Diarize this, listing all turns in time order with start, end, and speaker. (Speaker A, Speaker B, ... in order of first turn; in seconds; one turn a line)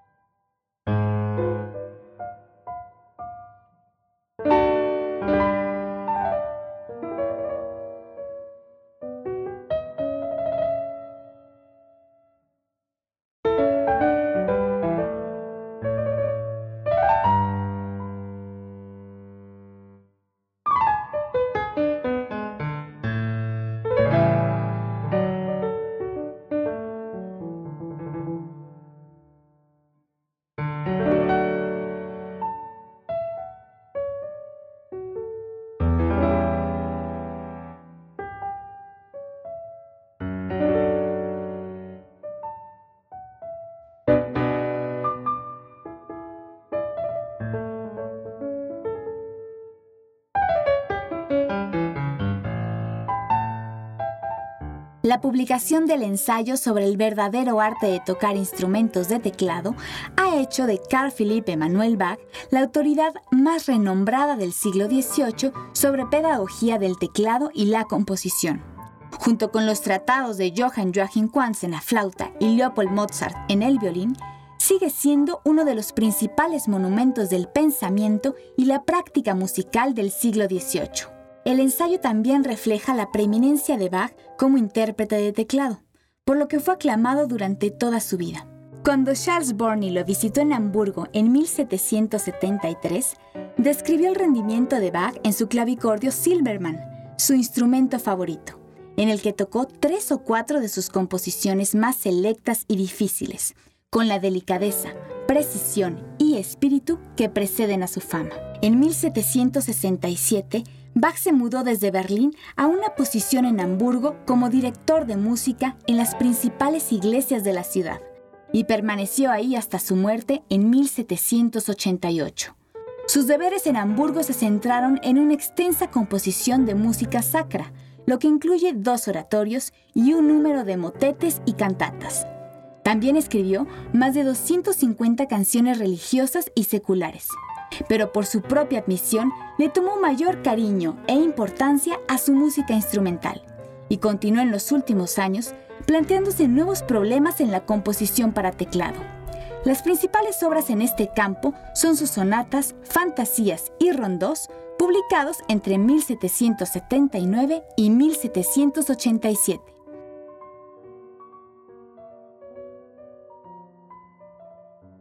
Speaker A: 55.0-122.5
Speaker A: 123.1-132.3
Speaker A: 132.8-149.0
Speaker A: 149.6-159.7